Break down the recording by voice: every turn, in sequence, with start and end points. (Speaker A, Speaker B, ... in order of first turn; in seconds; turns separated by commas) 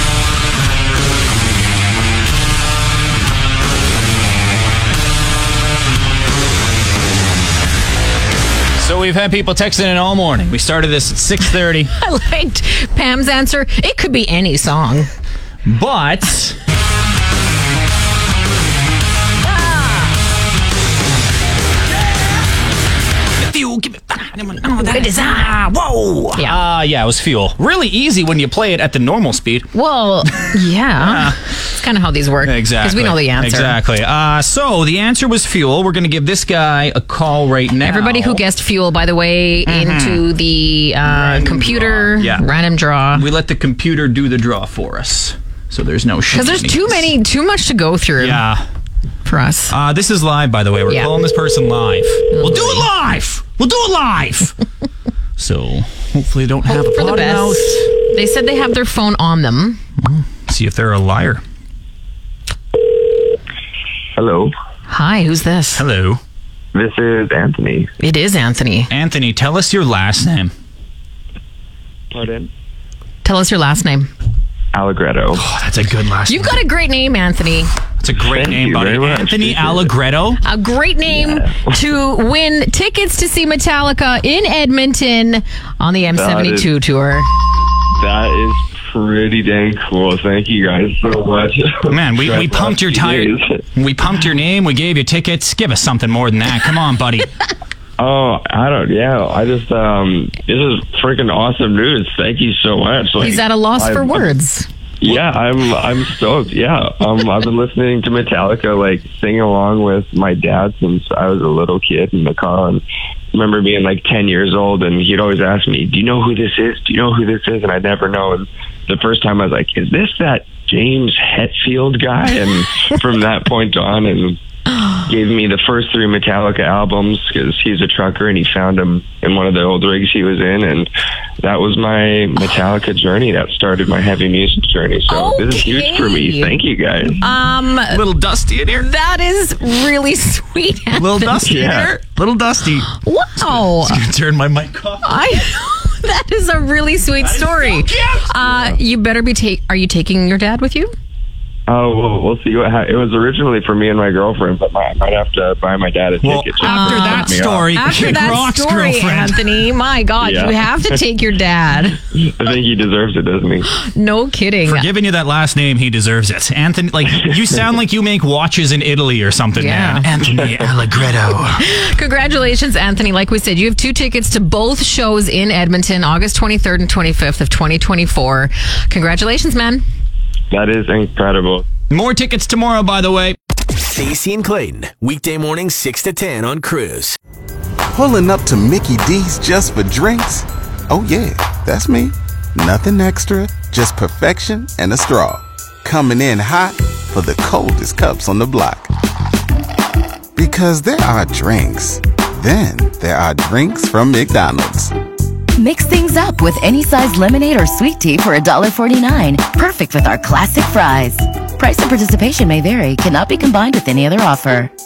Speaker A: 8.8-11.9, Speaker B: 11.9-15.1, Speaker A: 15.6-16.6, Speaker B: 19.4-20.1, Speaker A: 23.4-29.7, Speaker B: 24.8-25.6, Speaker B: 29.7-33.8, Speaker A: 31.0-31.4, Speaker A: 32.4-38.4, Speaker B: 37.8-43.2, Speaker A: 39.6-40.2, Speaker A: 41.0-42.4, Speaker A: 43.1-47.1, Speaker B: 46.3-48.4, Speaker A: 48.2-48.6, Speaker B: 49.2-49.7, Speaker A: 49.7-54.5, Speaker B: 50.9-51.1, Speaker B: 52.3-52.8, Speaker A: 55.4-57.9, Speaker B: 56.7-59.8, Speaker A: 60.0-61.4, Speaker C: 64.2-64.5, Speaker B: 64.9-65.8, Speaker A: 65.7-66.2, Speaker C: 66.7-67.9, Speaker B: 68.0-68.9, Speaker A: 68.9-70.5, Speaker C: 72.1-72.5, Speaker B: 73.2-74.1, Speaker C: 74.7-75.4, Speaker A: 75.3-76.6, Speaker B: 76.3-77.7, Speaker A: 78.0-80.4, Speaker C: 78.2-79.9, Speaker B: 80.4-87.3, Speaker C: 81.1-81.7, Speaker C: 86.1-86.7, Speaker C: 88.0-93.6, Speaker A: 91.9-97.3, Speaker C: 98.0-104.3, Speaker B: 103.2-104.7, Speaker C: 105.0-124.4, Speaker C: 125.1-130.9, Speaker C: 131.4-137.2, Speaker B: 135.1-136.5, Speaker B: 137.2-138.0, Speaker A: 137.9-138.9, Speaker B: 138.7-141.5, Speaker A: 140.9-145.5, Speaker C: 141.4-141.9, Speaker B: 142.9-144.0, Speaker B: 145.0-150.9, Speaker A: 147.2-148.7, Speaker C: 151.7-157.8, Speaker A: 156.2-159.6, Speaker B: 156.6-162.0, Speaker C: 160.2-161.0, Speaker C: 162.1-163.7, Speaker B: 163.8-164.9, Speaker A: 164.6-171.6, Speaker B: 169.6-170.1, Speaker C: 170.3-170.7, Speaker B: 171.6-179.8, Speaker C: 180.5-181.6, Speaker A: 181.9-183.4, Speaker D: 183.8-187.2, Speaker E: 187.9-198.9, Speaker E: 200.3-204.9, Speaker F: 205.6-214.7